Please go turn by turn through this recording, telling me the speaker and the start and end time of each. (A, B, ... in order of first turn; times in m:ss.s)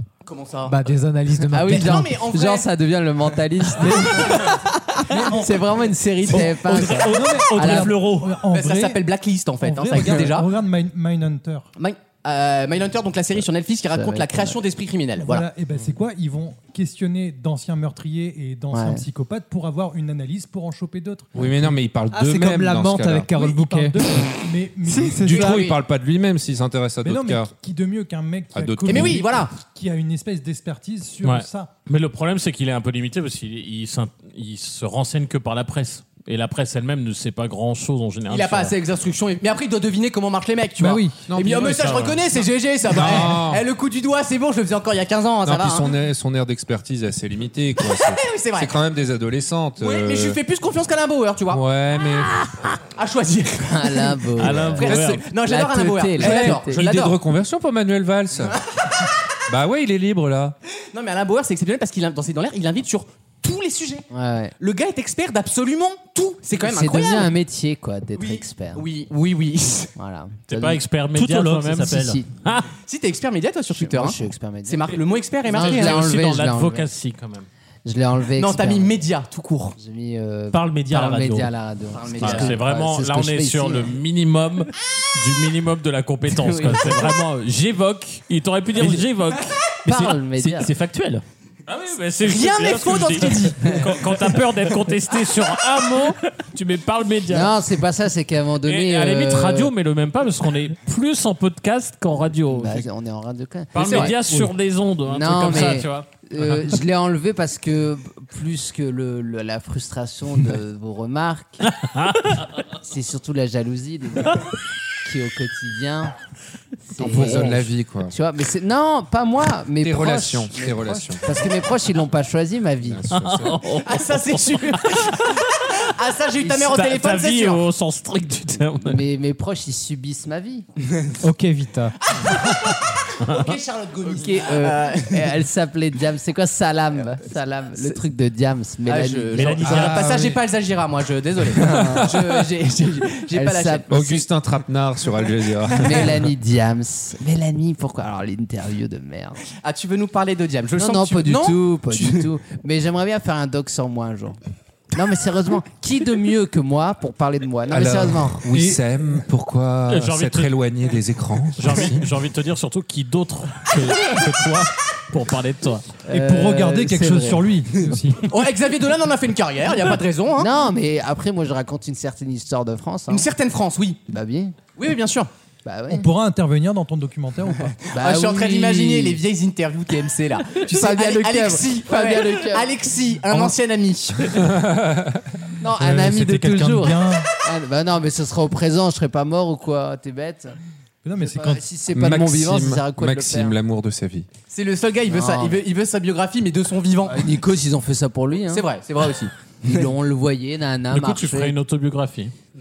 0:00.2-0:00.8 A
0:00.6-0:02.1 B
0:01.5-0:08.0 C
0:01.6-0:02.7 A
0:03.8-0:04.5 A
0:05.1-0:05.6 D
0:06.3-0:08.4 E
0:07.0-0:09.0 D
0:08.5-0:10.5 A
0:09.6-0:11.7 D
0:11.8-0:15.5 A
0:13.9-0:14.6 C
0:15.2-0:21.4 D
0:18.7-0:19.0 C
0:21.3-0:23.3 F
0:22.1-0:24.3 B
0:23.3-0:25.5 D
0:24.9-0:25.6 B
0:25.2-0:27.5 F
0:25.3-0:25.8 A
0:27.0-0:31.7 D
0:28.5-0:29.3 F
0:28.8-0:29.6 A
0:31.2-0:38.7 G
0:38.3-0:45.9 A
0:40.8-0:41.1 B
0:40.8-0:42.0 F
0:41.6-0:42.2 G
0:42.8-0:43.6 F
0:45.4-0:50.4 F
0:47.8-0:48.7 A
0:49.8-0:51.6 A
0:51.5-0:52.5 F
0:52.8-0:57.2 A
0:53.7-0:56.8 C
0:54.4-0:55.3 G
0:56.2-0:58.6 F
0:59.5-1:00.6 F
1:00.9-1:04.1 A
1:04.1-1:04.5 C
1:04.6-1:07.3 A
1:06.5-1:08.9 C
1:08.1-1:09.9 A
1:10.0-1:10.8 C
1:10.5-1:12.7 G
1:11.1-1:12.2 E
1:11.7-1:12.3 C
1:12.8-1:16.2 A
1:13.7-1:16.9 C
1:15.5-1:17.5 G
1:17.8-1:19.0 C
1:18.3-1:19.8 A
1:19.8-1:23.9 C
1:20.5-1:21.5 E
1:21.9-1:22.6 A
1:22.2-1:29.6 G
1:26.3-1:27.1 C
1:28.8-1:29.1 E
1:29.8-1:30.7 C
1:29.9-1:31.2 E
1:31.7-1:37.5 G
1:32.2-1:33.8 A
1:37.3-1:39.7 C
1:38.6-1:42.8 G
1:42.5-1:44.2 C
1:43.7-1:46.8 G
1:45.0-1:51.6 C
1:51.7-1:52.4 G
1:52.8-1:56.1 C
1:56.8-2:03.0 C
1:57.0-1:58.1 F
1:59.8-2:01.4 F
2:02.8-2:03.6 F
2:03.1-2:05.8 G
2:03.7-2:07.6 A
2:06.4-2:06.7 C
2:06.6-2:09.0 G
2:08.8-2:10.6 C
2:10.9-2:11.1 A
2:11.2-2:12.0 B
2:12.0-2:15.3 A
2:13.2-2:13.5 G
2:14.0-2:20.0 C
2:18.8-2:24.2 A
2:19.3-2:20.0 E
2:19.6-2:20.4 F
2:21.5-2:22.3 F
2:21.6-2:22.2 C
2:23.3-2:23.8 C
2:23.9-2:26.2 F
2:25.8-2:29.4 C
2:29.6-2:32.3 A
2:30.8-2:34.4 C
2:34.9-2:38.5 C
2:37.7-2:42.0 F
2:39.9-2:40.5 G
2:41.6-2:45.8 G
2:46.1-2:47.9 C
2:46.1-2:48.3 D
2:48.2-2:50.5 A
2:50.4-2:53.3 C
2:53.1-2:54.0 A
2:54.1-2:54.6 C
2:54.7-2:55.3 A
2:55.6-2:56.1 C
2:55.9-2:57.8 D
2:57.8-3:04.4 A
2:57.9-2:59.2 C
3:00.5-3:02.8 C
3:04.3-3:05.3 F
3:05.6-3:10.6 C
3:05.8-3:07.3 D
3:11.0-3:11.6 D
3:11.2-3:13.5 C
3:11.9-3:14.3 F
3:14.5-3:17.3 A
3:15.1-3:15.6 C
3:17.0-3:18.6 C
3:18.5-3:19.8 A
3:19.6-3:21.5 C
3:20.9-3:22.3 G